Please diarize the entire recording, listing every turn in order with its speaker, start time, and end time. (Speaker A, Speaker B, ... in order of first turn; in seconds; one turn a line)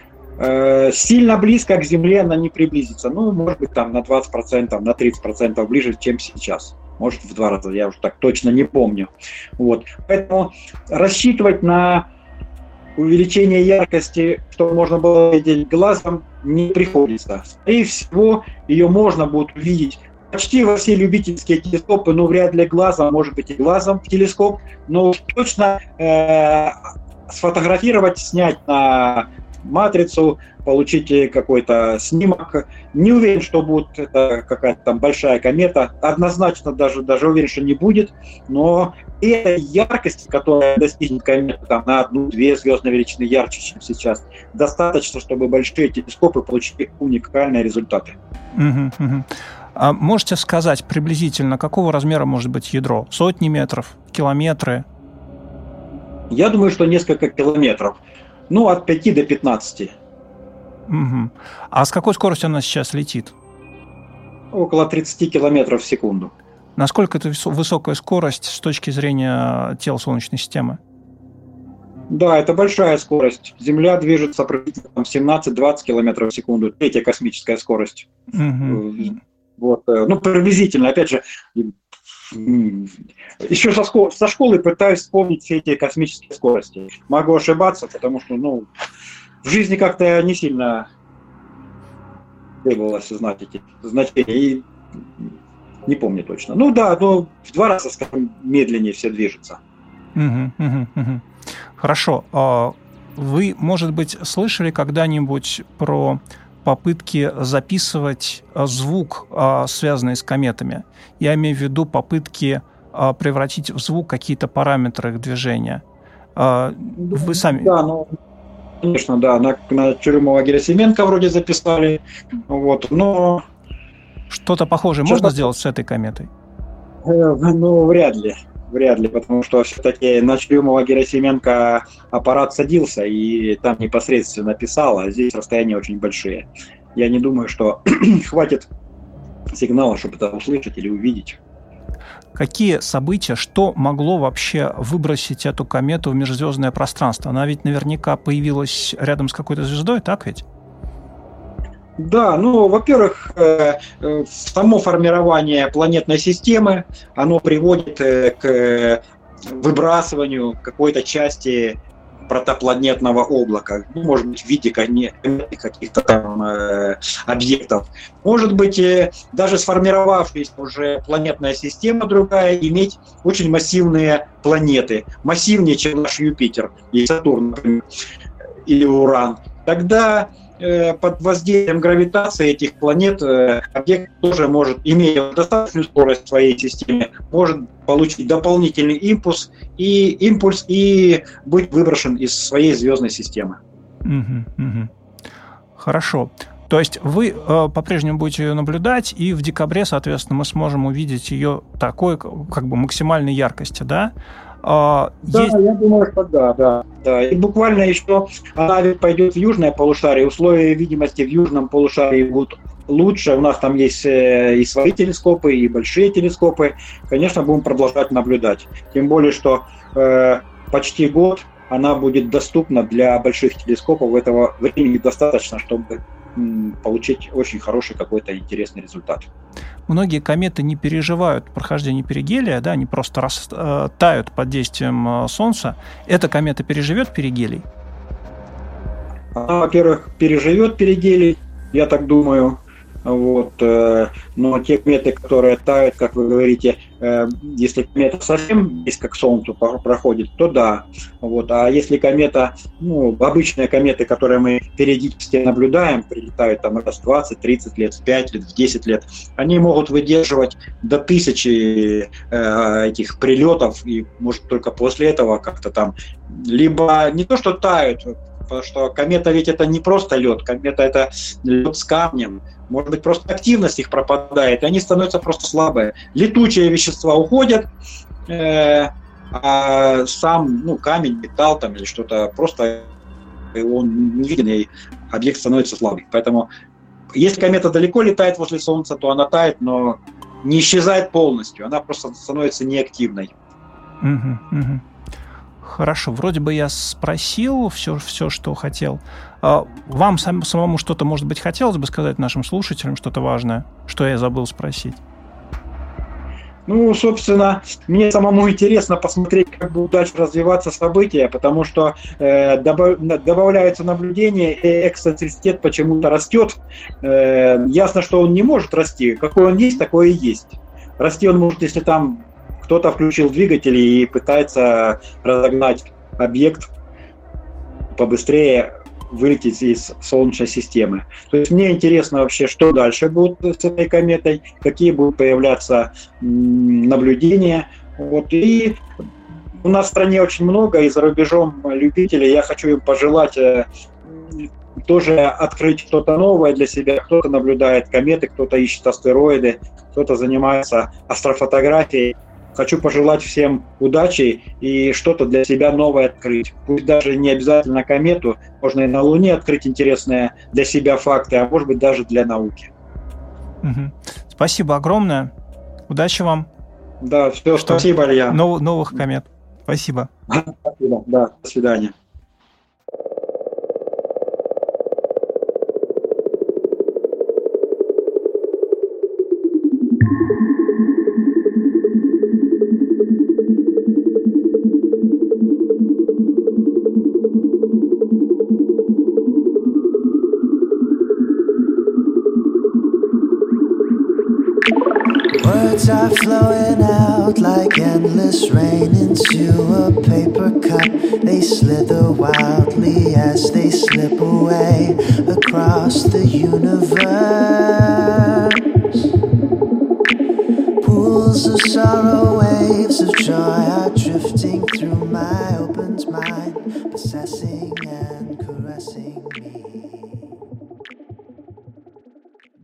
Speaker A: 0.4-12.1
Speaker A: 13.0-26.8
Speaker A: 27.3-48.2
Speaker B: 48.5-54.9
Speaker A: 56.3-58.0
Speaker A: 58.5-59.9
Speaker B: 60.9-63.3
Speaker A: 64.5-66.3
Speaker B: 66.8-70.8
Speaker A: 72.1-78.1
Speaker B: 78.3-79.0
Speaker A: 78.7-81.7
Speaker A: 82.3-88.7
Speaker A: 89.4-90.9
Speaker A: 92.6-95.3
Speaker A: 95.8-99.6
Speaker B: 100.1-115.8
Speaker B: 116.3-117.7
Speaker A: 117.0-118.1
Speaker A: 118.8-123.4
Speaker B: 124.3-126.3
Speaker A: 125.0-125.5
Speaker A: 127.0-138.7
Speaker A: 139.5-141.4
Speaker B: 142.3-150.4
Speaker A: 152.0-177.8
Speaker A: 178.7-193.6
Speaker B: 194.0-194.9
Speaker B: 195.8-205.6
Speaker A: 205.2-229.3
Speaker B: 229.9-237.7
Speaker A: 239.3-277.7
Speaker A: 278.3-282.9
Speaker A: 283.5-286.5
Speaker A: 287.1-293.3
Speaker B: 294.0-294.8
Speaker B: 295.6-305.0
Speaker A: 306.7-326.7
Speaker A: 327.9-338.8
Speaker A: 339.6-362.7
Speaker B: 363.6-365.3
Speaker B: 365.9-366.5
Speaker A: 367.0-368.4
Speaker B: 367.5-370.1
Speaker A: 370.3-371.9
Speaker C: 395.4-408.3
Speaker C: 410.8-420.2